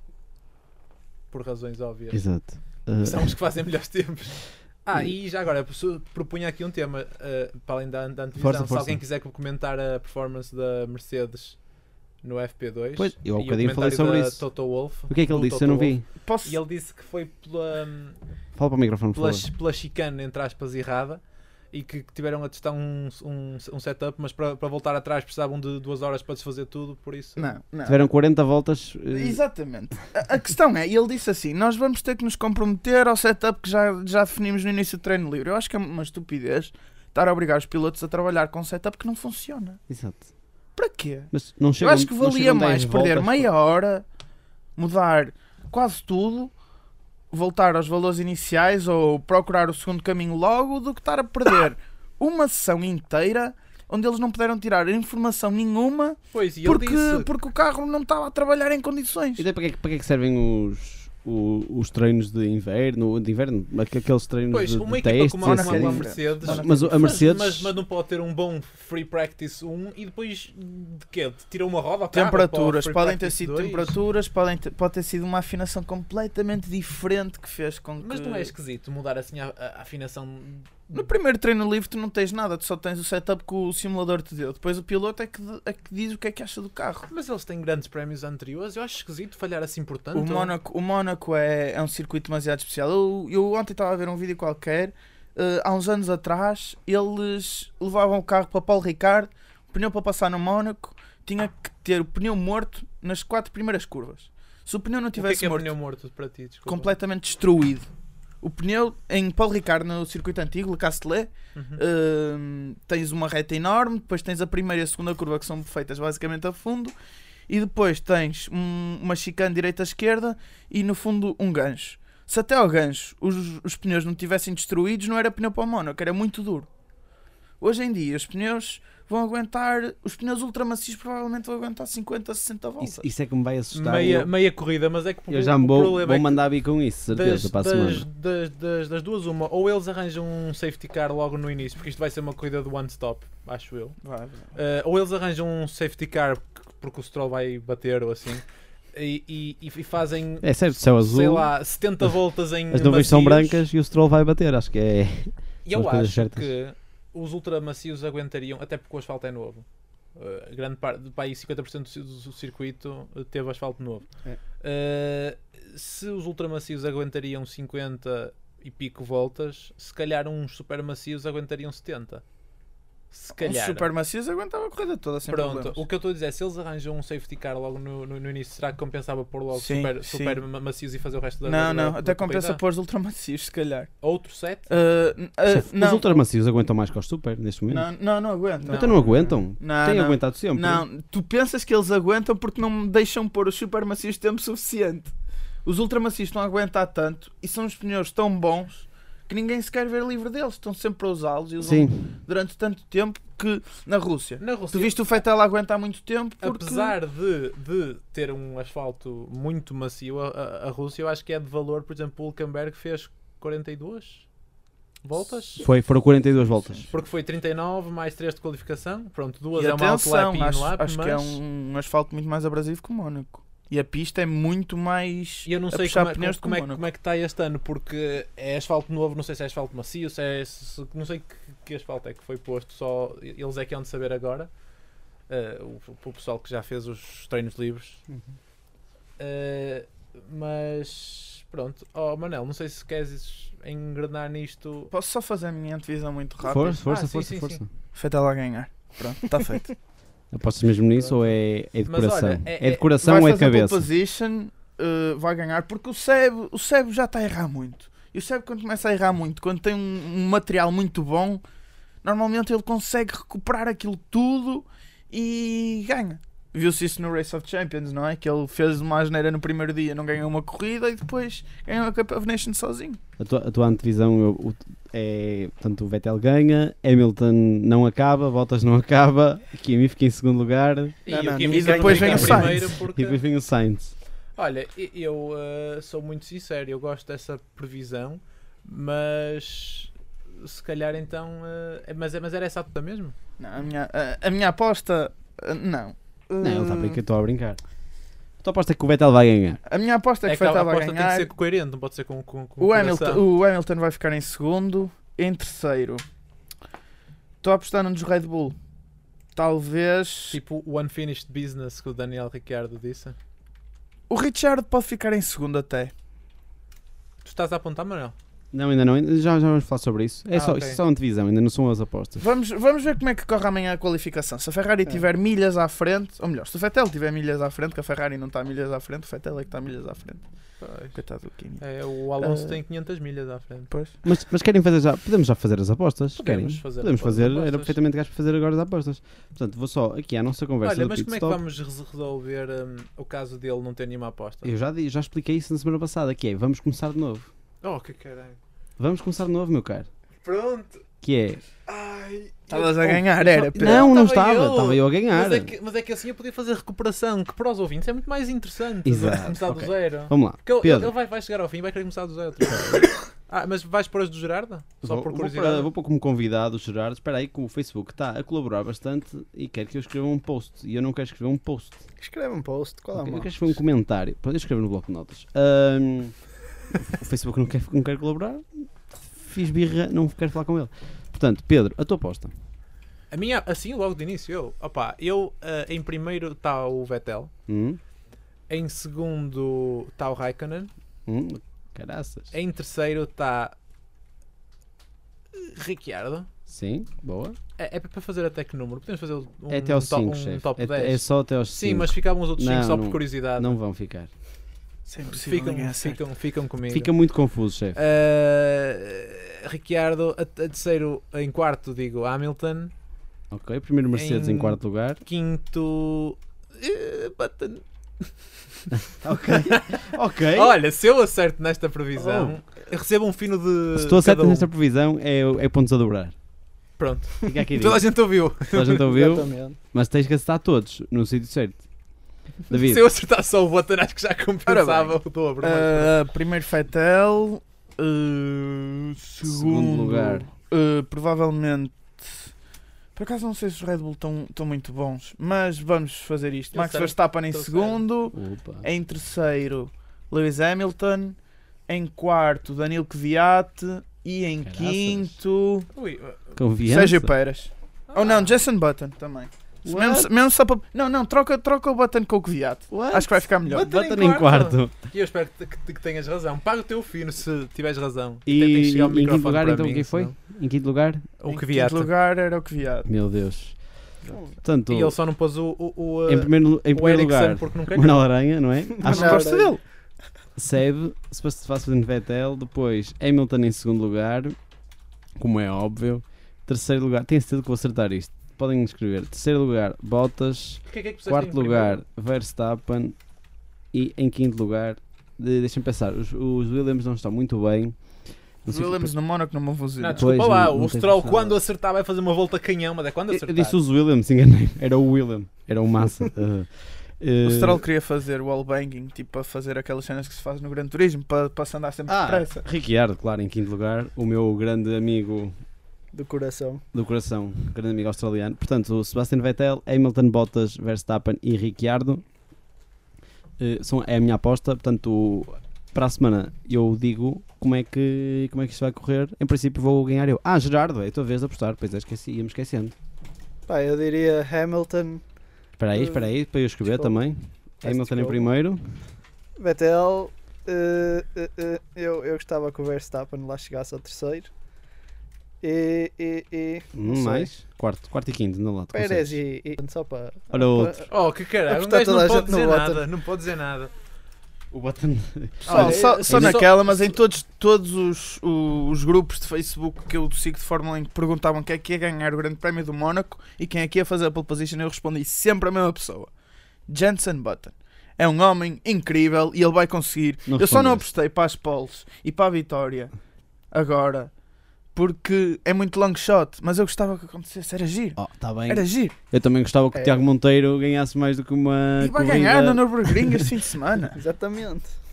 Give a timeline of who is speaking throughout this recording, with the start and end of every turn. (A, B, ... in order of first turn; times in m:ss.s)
0:01.3-0:11.6 A
0:02.1-0:03.4 B
0:08.4-0:09.0 B
0:12.2-0:18.2 A
0:13.0-0:16.0 B
0:16.2-0:16.6 C
0:18.6-0:19.5 B
0:19.1-0:21.2 A
0:21.7-0:27.5 A
0:27.4-0:28.1 C
0:27.8-0:29.4 B
0:29.1-0:39.8 C
0:39.9-0:40.2 B
0:40.8-0:44.0 C
0:41.3-0:43.5 B
0:44.8-0:46.5 C
0:47.3-0:59.4 C
0:56.3-0:57.3 A
0:59.4-1:07.7 B
1:04.5-1:13.9 A
1:05.4-1:07.2 C
1:12.1-1:18.5 C
1:18.0-1:21.1 A
1:20.9-1:27.1 C
1:27.1-1:30.5 A
1:30.1-1:45.7 C
1:45.2-1:46.9 A
1:46.6-1:47.9 C
1:48.4-1:56.9 C
1:51.5-1:51.8 A
1:57.5-2:06.7 C
2:07.6-2:13.1 C
2:12.8-2:14.3 B
2:13.7-2:16.4 A
2:15.3-2:18.0 B
2:17.1-2:24.0 A
2:24.0-2:24.5 C
2:24.5-2:33.6 A
2:30.4-2:36.5 B
2:35.6-2:44.1 A
2:44.6-2:52.2 A
2:53.1-2:53.9 A
2:53.4-2:55.8 C
2:55.3-3:02.6 A
2:59.5-3:00.4 C
3:01.4-3:04.0 C
3:04.0-3:04.7 A
3:04.7-3:06.2 C
3:05.5-3:07.9 B
3:07.7-3:15.1 C
3:08.6-3:10.8 B
3:08.6-3:09.3 A
3:15.6-3:27.0 C
3:21.6-3:22.1 B
3:24.4-3:25.0 A
3:26.4-3:34.2 A
3:35.0-3:35.6 A
3:35.6-3:36.9 B
3:36.4-3:36.9 C
3:36.9-3:41.4 A
3:39.5-3:46.8 C
3:45.4-3:54.5 A
3:55.3-3:58.0 A
3:59.2-4:04.9 A
4:04.9-4:06.8 C
4:06.4-4:07.7 B
4:06.8-4:07.6 A
4:07.9-4:09.7 C
4:10.3-4:13.8 B
4:11.0-4:11.3 A
4:11.8-4:12.9 A
4:13.0-4:21.4 C
4:22.0-4:33.0 C
4:33.2-4:41.0 B
4:41.0-4:43.2 A
4:41.1-4:42.4 D
4:41.4-4:42.7 C
4:41.9-4:43.9 B
4:44.4-4:53.1 A
4:53.4-4:57.0 C
4:56.4-4:57.6 B
4:58.4-4:59.6 B
4:59.6-5:01.3 C
5:00.2-5:03.2 A
5:02.6-5:06.0 C
5:07.4-5:08.6 C
5:09.4-5:10.4 C
5:10.3-5:13.2 A
5:14.1-5:15.9 C
5:17.2-5:18.1 A
5:18.5-5:22.2 B
5:20.3-5:20.8 A
5:22.2-5:30.2 C
5:30.6-5:31.0 A
5:30.9-5:31.6 C
5:31.6-5:33.7 A
5:32.2-5:32.6 C
5:33.7-5:33.9 C
5:34.0-5:41.4 B
5:36.2-5:37.8 A
5:40.6-5:44.5 A
5:44.4-5:47.3 B
5:47.6-5:48.4 A
5:48.8-5:49.9 B
5:50.2-5:50.8 A
5:51.0-5:51.4 B
5:51.7-6:05.7 A
5:52.5-5:53.9 C
5:53.5-5:55.5 B
5:58.8-6:00.9 B
6:04.8-6:11.8 B
6:12.0-6:13.3 D
6:12.9-6:22.3 B
6:23.1-6:27.3 A
6:27.5-6:27.8 B
6:28.5-6:30.7 A
6:31.1-6:32.3 B
6:32.3-6:33.5 A
6:35.3-6:36.3 A
6:36.5-6:37.4 B
6:37.6-6:43.6 A
6:39.5-6:44.1 B
6:44.8-6:46.0 C
6:45.1-6:46.9 A
6:46.7-6:47.8 B
6:47.7-6:52.7 A
6:53.3-6:55.0 B
6:53.9-6:58.1 A
6:58.9-7:00.6 B
6:59.3-7:04.5 A
7:02.0-7:02.4 B
7:03.8-7:06.1 B
7:06.8-7:08.8 A
7:07.2-7:11.6 B
7:08.8-7:09.6 D
7:12.5-7:12.8 B
7:12.5-7:15.9 A
7:14.5-7:22.3 C
7:19.2-7:20.3 B
7:23.0-7:31.2 C
7:26.5-7:27.8 A
7:28.1-7:28.7 B
7:31.7-7:35.7 C
7:34.4-7:35.1 B
7:35.7-7:36.3 A
7:36.4-7:37.1 B
7:36.6-7:43.7 C
7:37.9-7:38.4 A
7:39.6-7:40.1 B
7:42.7-7:44.8 B
7:43.5-7:50.1 A
7:48.2-7:51.1 B
7:51.2-7:51.9 A
7:51.3-7:52.9 C
7:52.8-7:53.6 B
7:54.4-7:55.0 B
7:54.7-7:58.1 A
7:56.1-7:59.4 B
7:58.8-7:59.5 D
7:58.9-7:59.6 C
7:59.0-7:59.3 A
8:00.4-8:04.4 B
8:05.2-8:13.0 B
8:10.6-8:11.8 A
8:13.7-8:19.0 B
8:18.5-8:20.0 C
8:19.8-8:23.6 A
8:19.9-8:21.4 B
8:23.1-8:27.6 B
8:27.2-8:32.4 C
8:31.9-8:35.3 B
8:35.9-8:36.6 D
8:36.7-8:42.0 B
8:43.4-8:52.7 B
8:53.5-8:55.0 D
8:55.6-8:58.8 B
8:55.7-8:56.1 D
8:56.6-8:57.0 D
8:57.6-8:58.3 D
8:59.4-9:04.3 D
9:05.4-9:07.3 D
9:06.7-9:09.2 B
9:08.7-9:10.9 D
9:10.3-9:10.8 B
9:10.9-9:13.7 A
9:11.4-9:12.8 D
9:14.5-9:16.5 B
9:15.4-9:17.0 A
9:15.4-9:26.1 C
9:26.7-9:32.9 C
9:30.3-9:30.9 B
9:33.5-9:34.1 C
9:34.7-9:38.9 C
9:38.0-9:43.3 B
9:39.7-9:40.0 D
9:41.8-9:44.0 C
9:43.9-9:44.7 D